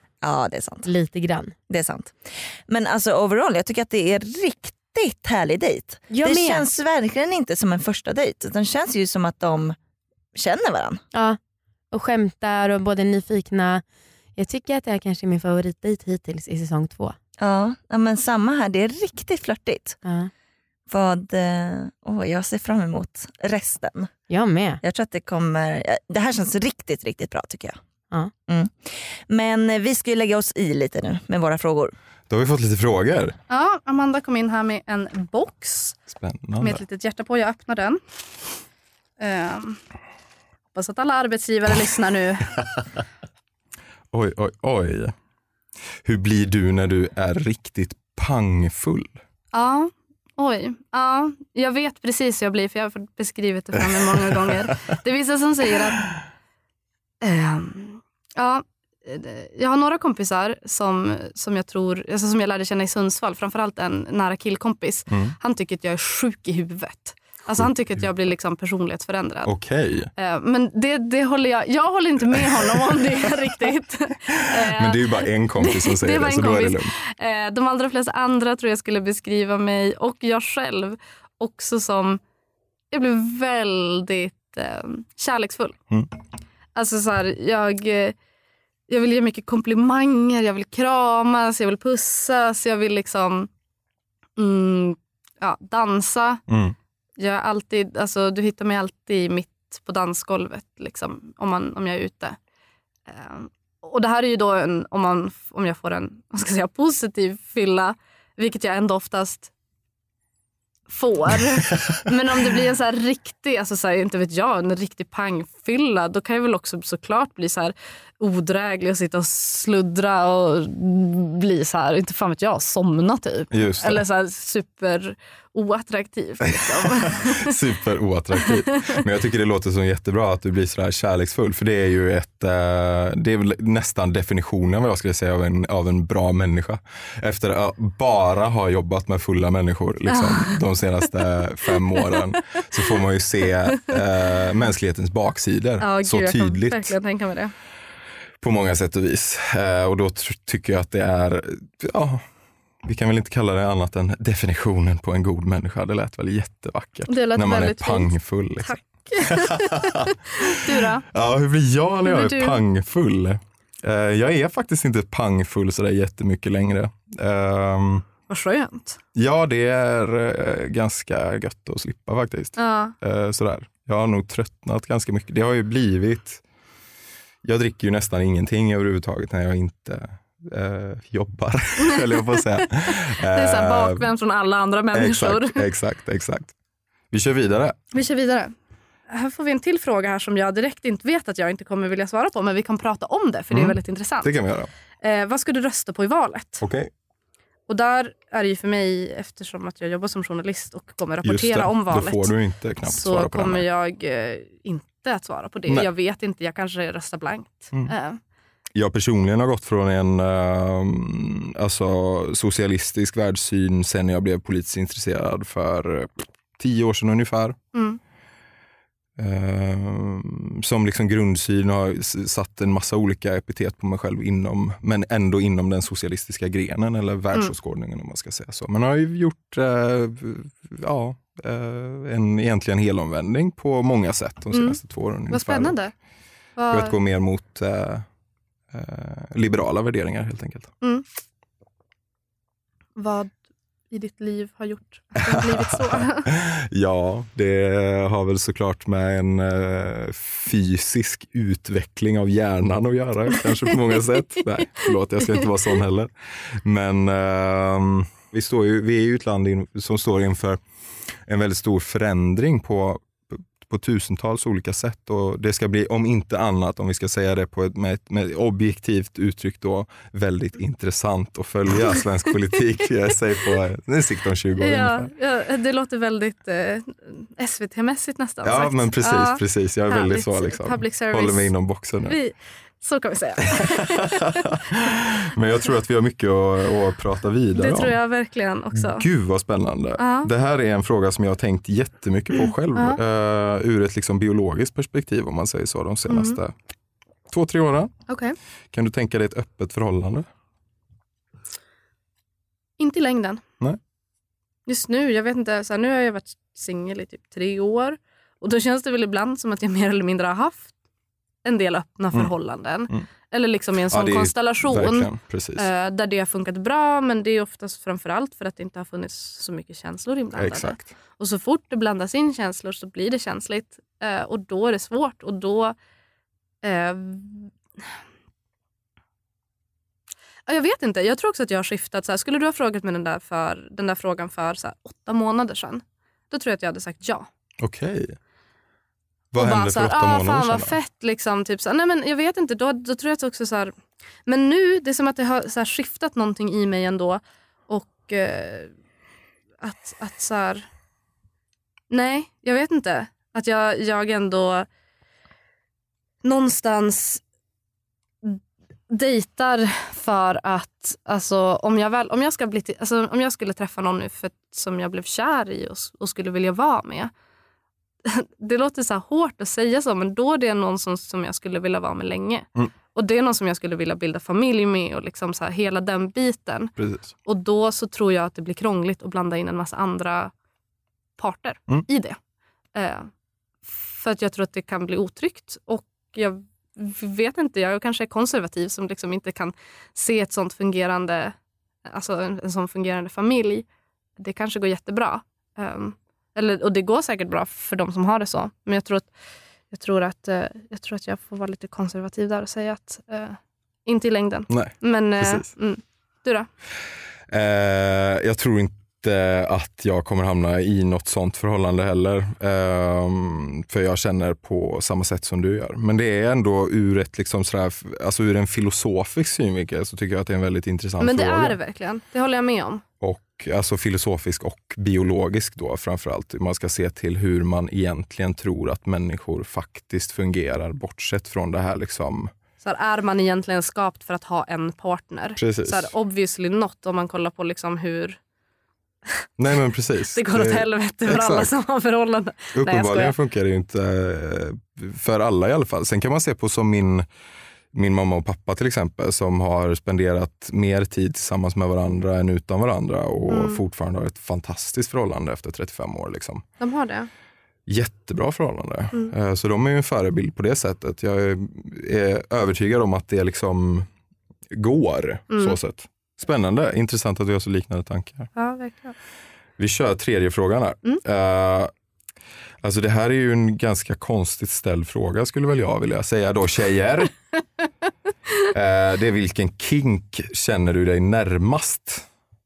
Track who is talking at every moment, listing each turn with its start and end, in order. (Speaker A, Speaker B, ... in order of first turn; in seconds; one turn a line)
Speaker A: 0.2-0.9
Speaker B: 0.8-1.6
Speaker A: 1.7-9.8
Speaker B: 6.1-6.7
Speaker A: 10.3-11.0
Speaker B: 11.9-13.8
Speaker B: 14.4-17.2
Speaker A: 17.4-20.0
Speaker B: 20.1-20.3
Speaker A: 20.9-24.1
Speaker B: 24.3-24.8
Speaker A: 24.8-27.8
Speaker A: 28.5-31.9
Speaker C: 32.3-33.4
Speaker D: 33.5-36.0
Speaker C: 36.1-36.8
Speaker D: 36.6-38.0
Speaker D: 39.2-39.8
Speaker D: 40.7-42.5
Speaker C: 44.1-45.1
Speaker C: 46.0-49.2
Speaker D: 49.5-56.1
Speaker D: 57.2-69.5
Speaker C: 65.1-65.3
Speaker C: 67.6-68.1
Speaker C: 69.5-70.1
Speaker D: 70.2-82.2
Speaker C: 74.4-76.9
Speaker D: 82.9-85.8
Speaker D: 86.8-88.2
Speaker D: 88.9-93.5
Speaker D: 94.4-96.4
Speaker C: 96.5-96.8
Speaker D: 97.2-102.4
Speaker D: 103.1-109.5
Speaker D: 110.9-127.6
Speaker C: 123.5-124.0
Speaker C: 127.0-146.9
Speaker D: 140.1-140.6
Speaker D: 142.0-142.3
Speaker D: 145.8-147.5
Speaker C: 148.4-152.2
Speaker C: 152.8-168.1
Speaker D: 157.1-161.1
Speaker D: 162.1-162.6
Speaker D: 168.3-169.0
Speaker C: 169.2-176.4
Speaker D: 172.6-172.9
Speaker C: 177.4-184.1
Speaker D: 181.8-185.6
Speaker C: 184.9-186.5
Speaker C: 187.1-187.8
Speaker D: 187.9-188.5
Speaker D: 189.1-194.4
Speaker C: 193.5-194.7
Speaker D: 195.0-196.6
Speaker C: 196.6-196.9
Speaker D: 197.7-202.3
Speaker C: 201.2-203.7
Speaker D: 202.8-208.2
Speaker C: 208.8-217.6
Speaker D: 217.7-218.0
Speaker C: 219.2-235.8
Speaker D: 234.5-235.9
Speaker D: 236.6-237.0
Speaker C: 236.7-238.1
Speaker C: 238.7-240.7
Speaker D: 243.0-243.3
Speaker D: 243.9-246.3
Speaker C: 245.2-260.6
Speaker C: 261.3-275.1
Speaker D: 274.6-281.5
Speaker C: 278.4-282.2
Speaker D: 282.0-284.4
Speaker C: 283.6-288.0
Speaker D: 287.6-289.1
Speaker C: 288.7-296.5
Speaker D: 290.0-290.3
Speaker D: 292.7-293.0
Speaker D: 296.1-296.4
Speaker C: 297.3-297.9
Speaker D: 298.1-298.4
Speaker C: 298.7-300.3
Speaker D: 302.8-303.4
Speaker D: 304.7-310.7
Speaker D: 311.4-325.8
Speaker C: 313.9-315.7
Speaker C: 320.4-320.9
Speaker D: 326.6-327.5
Speaker D: 330.5-337.3
Speaker C: 337.6-338.2
Speaker C: 339.3-340.8
Speaker D: 339.4-343.7
Speaker D: 344.3-348.7
Speaker D: 349.6-350.7
Speaker D: 351.9-354.7
Speaker D: 356.2-357.2
Speaker D: 358.9-367.1
Speaker D: 368.1-380.3
Speaker C: 376.8-377.1
Speaker D: 381.2-382.2
Speaker D: 382.8-383.1
Speaker D: 383.7-391.4
Speaker D: 391.9-393.7
Speaker D: 394.2-399.1
Speaker D: 399.7-406.5
Speaker C: 404.5-405.5
Speaker C: 407.3-421.6
Speaker D: 421.0-422.8
Speaker C: 423.0-432.3
Speaker D: 432.6-438.2
Speaker C: 435.4-435.9
Speaker C: 439.4-441.5
Speaker D: 440.1-443.1
Speaker C: 442.6-447.1
Speaker C: 447.7-456.4
Speaker D: 453.3-453.6
Speaker D: 456.6-457.1
Speaker C: 457.7-463.9
Speaker C: 464.5-468.3
Speaker D: 465.3-465.6
Speaker D: 468.4-469.0
Speaker C: 469.6-471.7
Speaker C: 472.6-477.1
Speaker C: 478.5-482.1